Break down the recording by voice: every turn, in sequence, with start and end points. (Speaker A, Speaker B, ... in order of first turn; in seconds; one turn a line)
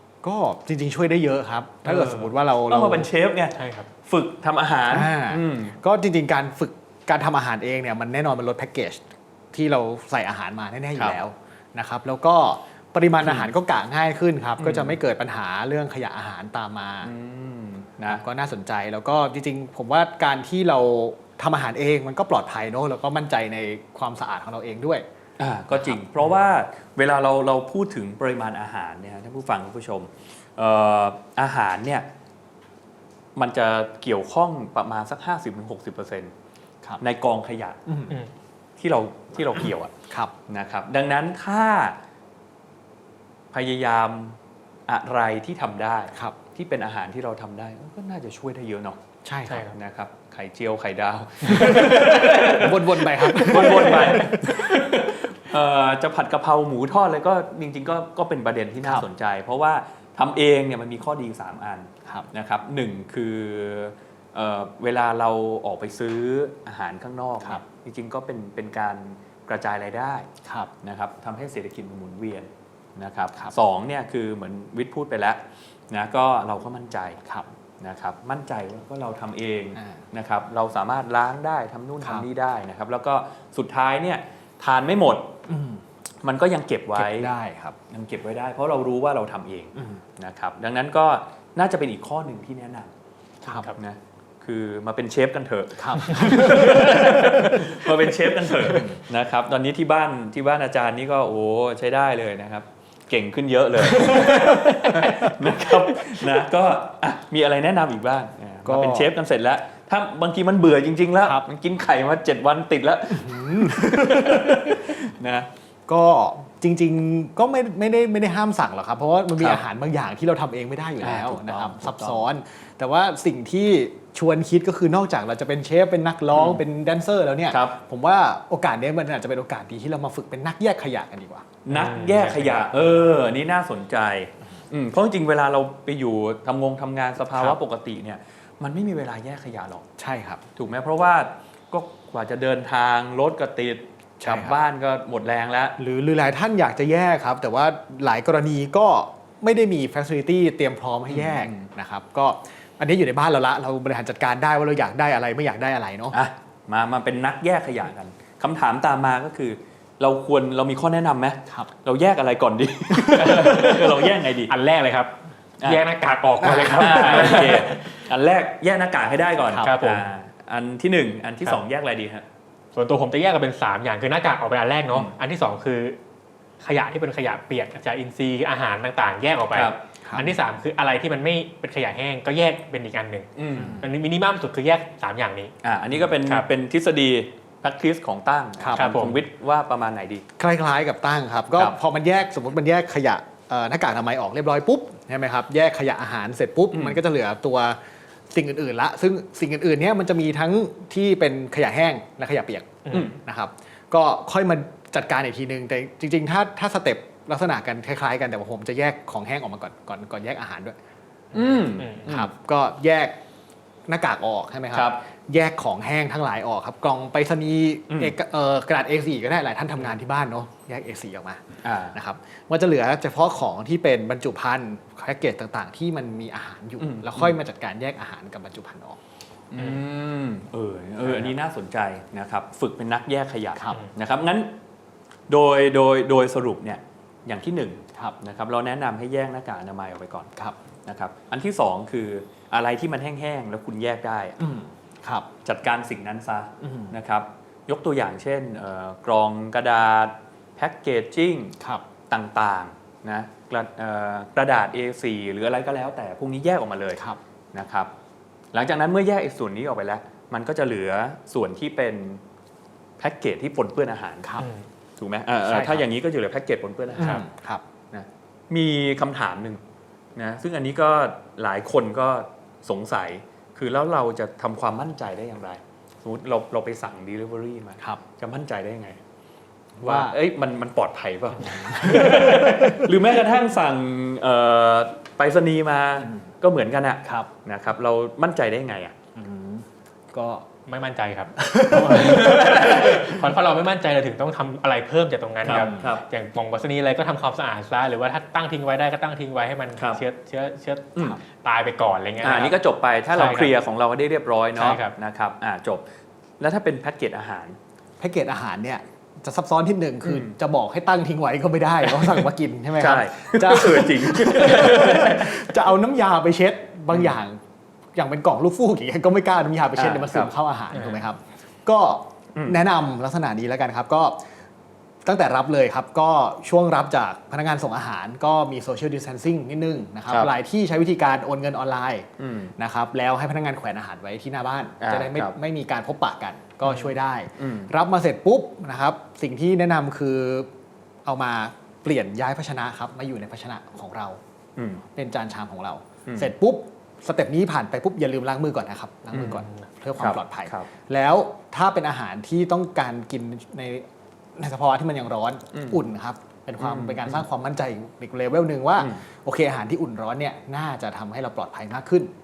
Speaker A: 0.2-3.1
Speaker B: 1.8-5.8
Speaker C: 3.6-3.9
Speaker A: 4.9-17.1
Speaker B: 14.6-15.0
Speaker B: 17.0-18.2
Speaker A: 18.1-25.0
Speaker B: 25.4-32.1
Speaker A: 25.7-26.0
Speaker B: 33.4-36.3
Speaker B: 37.0-37.9
Speaker A: 37.9-38.1
Speaker B: 38.8-42.0
Speaker B: 43.5-49.0
Speaker A: 49.2-49.7
Speaker C: 49.5-49.7
Speaker B: 49.6-70.3
Speaker A: 51.4-55.1
Speaker A: 70.4-70.7
Speaker B: 70.8-77.2
Speaker B: 77.8-85.4
Speaker A: 85.5-85.8
Speaker B: 86.2-87.3
Speaker A: 87.0-87.8
Speaker B: 87.9-92.9
Speaker A: 89.8-90.0
Speaker C: 93.4-93.8
Speaker B: 93.7-115.5
Speaker A: 95.8-97.9
Speaker C: 96.2-96.7
Speaker A: 98.6-99.0
Speaker C: 104.0-105.0
Speaker A: 104.0-105.7
Speaker A: 108.6-109.1
Speaker A: 113.1-115.0
Speaker A: 115.9-131.5
Speaker B: 121.0-122.2
Speaker B: 126.3-126.6
Speaker B: 127.5-127.8
Speaker B: 131.6-139.9
Speaker C: 131.7-132.8
Speaker A: 140.0-140.4
Speaker B: 140.6-145.8
Speaker A: 144.2-144.6
Speaker A: 145.8-156.2
Speaker B: 151.1-151.7
Speaker B: 156.1-164.5
Speaker A: 162.9-163.8
Speaker C: 163.3-163.9
Speaker C: 164.5-168.0
Speaker A: 166.4-167.6
Speaker B: 166.5-172.2
Speaker A: 169.5-169.7
Speaker C: 169.6-170.1
Speaker C: 172.7-176.0
Speaker C: 176.6-185.5
Speaker A: 180.0-180.3
Speaker B: 183.3-183.8
Speaker A: 183.6-183.9
Speaker B: 185.6-190.2
Speaker A: 188.6-189.0
Speaker C: 188.8-189.2
Speaker A: 190.4-197.8
Speaker B: 196.7-197.0
Speaker A: 198.3-210.8
Speaker C: 202.8-203.1
Speaker B: 202.9-203.2
Speaker B: 211.3-212.3
Speaker C: 211.4-212.0
Speaker A: 212.1-213.2
Speaker A: 213.9-229.0
Speaker B: 214.7-215.0
Speaker B: 217.9-218.1
Speaker B: 221.6-222.0
Speaker B: 226.8-227.3
Speaker B: 229.5-234.5
Speaker A: 231.0-231.3
Speaker B: 235.3-240.3
Speaker B: 240.8-244.4
Speaker A: 244.4-245.3
Speaker B: 245.4-251.6
Speaker A: 246.6-246.9
Speaker B: 252.1-257.0
Speaker B: 257.5-257.9
Speaker B: 258.5-262.2
Speaker B: 263.0-264.4
Speaker A: 264.2-264.5
Speaker C: 264.4-264.6
Speaker B: 265.0-267.2
Speaker A: 265.5-265.8
Speaker A: 266.9-267.6
Speaker B: 267.9-269.6
Speaker B: 270.1-279.0
Speaker A: 279.8-280.1
Speaker B: 279.8-288.9
Speaker A: 281.4-282.9
Speaker A: 289.1-290.5
Speaker C: 290.7-302.6
Speaker A: 291.4-293.1
Speaker B: 291.9-293.2
Speaker B: 295.4-296.0
Speaker A: 295.4-295.9
Speaker B: 302.2-305.8
Speaker C: 303.1-303.5
Speaker C: 304.6-304.9
Speaker B: 306.4-307.6
Speaker A: 308.0-317.4
Speaker B: 310.0-310.3
Speaker B: 312.8-315.5
Speaker A: 317.9-324.2
Speaker B: 319.8-320.3
Speaker C: 320.7-321.0
Speaker A: 325.0-340.5
Speaker B: 332.2-332.5
Speaker B: 334.8-335.3
Speaker B: 337.4-337.7
Speaker A: 341.0-344.2
Speaker B: 344.6-344.8
Speaker A: 344.8-362.1
Speaker B: 346.1-346.3
Speaker B: 349.1-349.4
Speaker B: 350.0-350.7
Speaker B: 355.5-355.8
Speaker B: 356.6-357.2